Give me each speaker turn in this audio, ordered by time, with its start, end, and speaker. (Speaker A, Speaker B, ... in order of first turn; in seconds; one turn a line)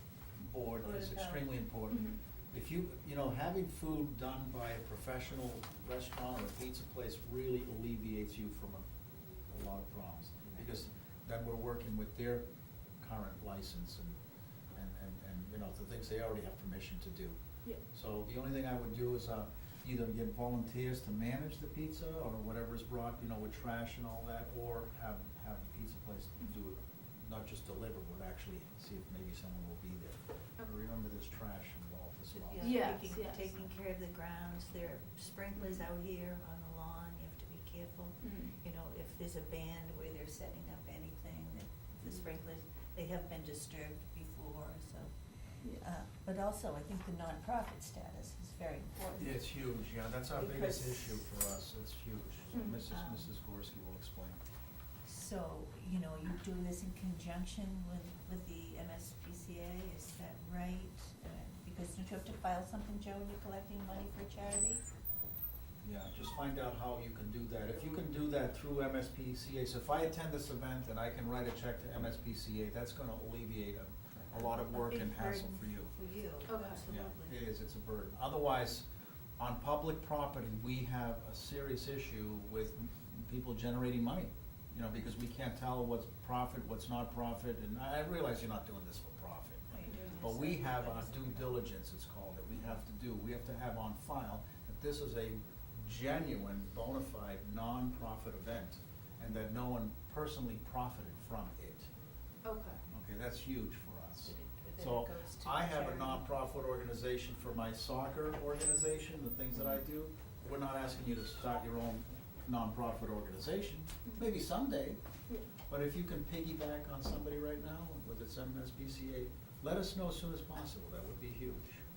Speaker A: 0.4-8.8
Speaker B: 0.8-1.4
Speaker C: 1.9-2.2
Speaker A: 9.5-12.4
Speaker A: 13.0-14.2
Speaker A: 14.7-17.4
Speaker A: 17.9-33.0
Speaker B: 32.3-45.1
Speaker C: 32.6-33.4
Speaker C: 35.5-35.8
Speaker C: 38.2-38.5
Speaker B: 45.8-49.4
Speaker A: 49.2-54.4
Speaker B: 50.4-51.2
Speaker C: 52.5-52.8
Speaker B: 52.9-53.3
Speaker B: 55.0-64.8
Speaker A: 65.8-75.9
Speaker B: 74.3-77.4
Speaker C: 76.5-76.8
Speaker A: 76.9-78.9
Speaker A: 79.4-101.9
Speaker B: 89.7-91.6
Speaker C: 89.9-90.1
Speaker C: 102.4-102.8
Speaker A: 102.9-115.0
Speaker B: 104.2-106.2
Speaker A: 115.7-121.7